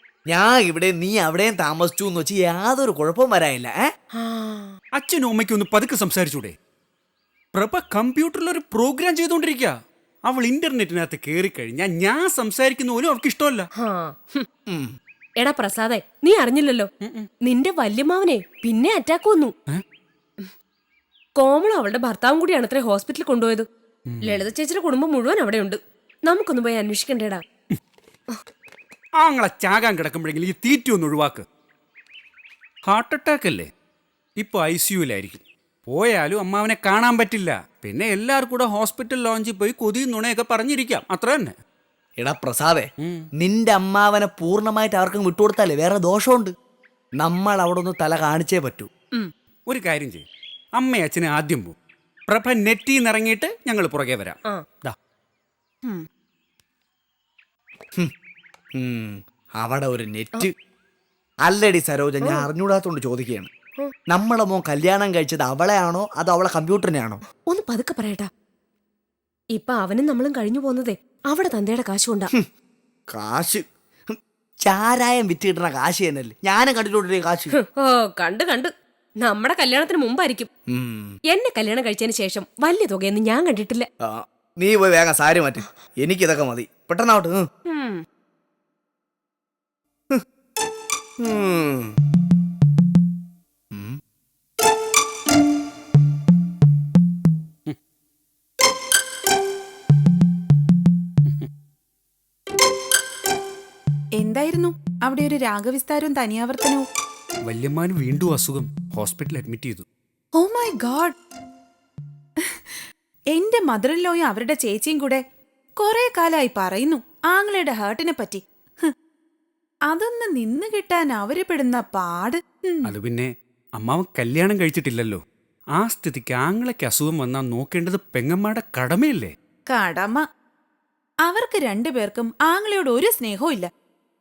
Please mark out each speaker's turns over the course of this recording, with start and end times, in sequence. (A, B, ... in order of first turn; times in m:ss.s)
0:00.3-0:03.8 A
0:04.2-0:04.7 B
0:05.0-0:06.5 C
0:07.5-0:09.7 C
0:10.2-0:13.7 C
0:13.8-0:14.4 B
0:15.4-0:16.9 B
0:17.4-0:19.5 B
0:21.4-0:23.6 B
0:24.1-0:24.4 C
0:24.2-0:27.4 B
0:29.2-0:31.4 C
0:32.9-0:33.7 C
0:34.4-0:41.5 C
0:42.2-0:46.5 A
0:47.2-0:48.9 A
0:49.7-0:50.2 C
0:50.8-0:51.7 C
0:52.3-0:54.9 C
0:58.8-1:00.5 A
1:01.4-1:03.5 A
1:04.1-1:07.2 A
1:07.5-1:08.3 B
1:09.6-1:12.3 B
1:13.1-1:17.5 A
1:17.6-1:18.7 B
1:19.2-1:20.5 B
1:20.7-1:21.1 A
1:21.3-1:23.8 B
1:24.0-1:27.4 A
1:27.7-1:28.0 B
1:31.2-1:31.9 A
1:44.2-1:46.8 D
1:47.5-1:49.8 C
1:50.4-1:51.1 D
1:53.3-1:55.2 D
1:55.8-1:58.9 D
1:59.9-2:02.9 D
2:02.8-2:05.2 C
2:05.8-2:09.3 C
2:09.7-2:10.2 D
2:11.3-2:13.7 D